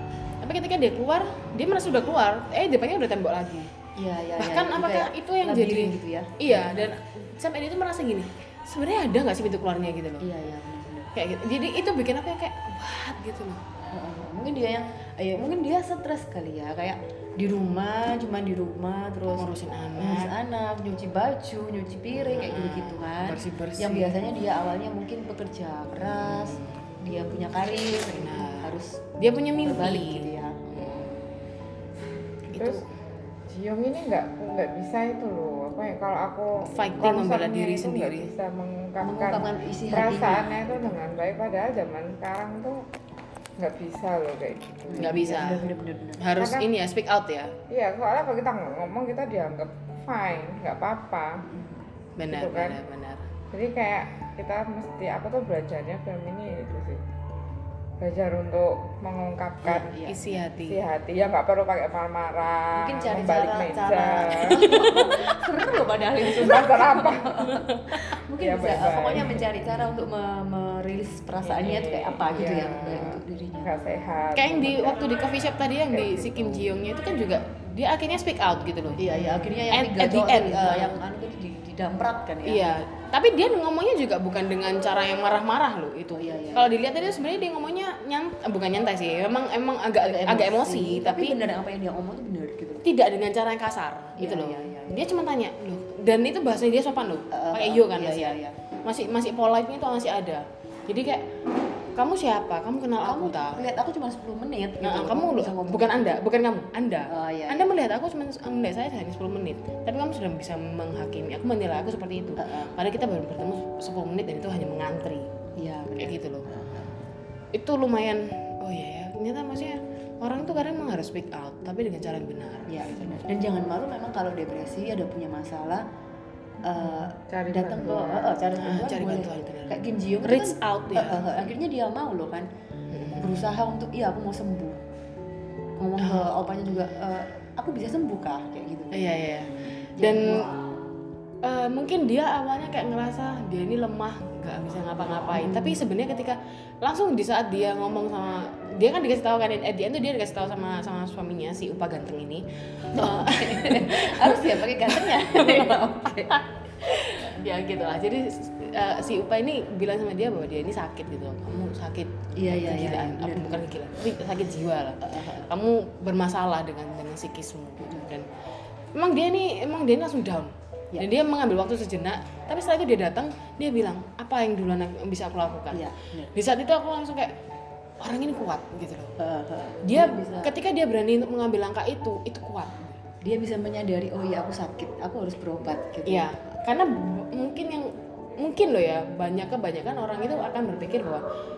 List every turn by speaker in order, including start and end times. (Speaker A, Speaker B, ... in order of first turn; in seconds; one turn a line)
Speaker A: 0.4-3.7
Speaker B: 4.0-6.9
Speaker A: 4.4-10.2
Speaker B: 10.2-11.1
Speaker A: 11.1-13.6
Speaker B: 13.9-29.0
Speaker A: 19.4-20.3
Speaker A: 22.1-24.1
Speaker A: 26.0-26.8
Speaker A: 27.9-30.3
Speaker B: 29.6-31.2
Speaker A: 32.5-32.9
Speaker C: 32.5-32.8
Speaker C: 33.5-42.8
Speaker A: 36.7-38.3
Speaker B: 39.0-41.0
Speaker C: 43.6-45.4
Speaker B: 44.9-46.2
Speaker A: 45.0-45.7
Speaker A: 46.2-47.5
Speaker C: 46.4-46.6
Speaker C: 47.7-51.4
Speaker B: 51.4-51.9
Speaker A: 52.2-53.3
Speaker C: 52.3-52.8
Speaker C: 53.5-57.0
Speaker C: 58.0-59.9
Speaker B: 59.6-60.4
Speaker A: 60.0-60.8
Speaker C: 60.6-65.2
Speaker B: 62.7-73.7
Speaker A: 63.7-65.0
Speaker C: 66.2-67.5
Speaker A: 67.5-68.0
Speaker C: 68.4-69.4
Speaker A: 71.4-73.2
Speaker C: 72.3-75.1
Speaker A: 74.3-81.0
Speaker C: 75.9-76.5
Speaker B: 79.0-82.8
Speaker A: 82.4-91.3
Speaker B: 86.1-86.8
Speaker B: 90.0-92.8
Speaker A: 92.8-101.3
Speaker B: 94.2-95.1
Speaker B: 97.3-98.5
Speaker A: 101.9-103.7
Speaker B: 103.0-106.2
Speaker A: 104.8-115.3
Speaker B: 107.1-107.7
Speaker B: 112.4-112.7
Speaker B: 115.6-116.9
Speaker A: 116.0-116.5
Speaker A: 117.5-122.9
Speaker B: 122.7-125.8
Speaker B: 126.6-132.5
Speaker C: 127.3-128.3
Speaker A: 128.6-131.5
Speaker A: 132.9-133.3
Speaker B: 133.2-134.8
Speaker B: 135.8-139.0
Speaker A: 136.0-136.9
Speaker A: 138.9-140.5
Speaker B: 140.0-140.6
Speaker A: 141.4-168.3
Speaker B: 145.3-145.8
Speaker B: 152.9-156.4
Speaker B: 162.3-163.7
Speaker B: 165.0-165.5
Speaker B: 167.8-168.1
Speaker A: 168.9-177.3
Speaker B: 175.7-176.3
Speaker A: 178.0-179.1
Speaker B: 179.2-180.5
Speaker A: 179.8-182.9
Speaker B: 183.2-186.3
Speaker A: 186.1-191.2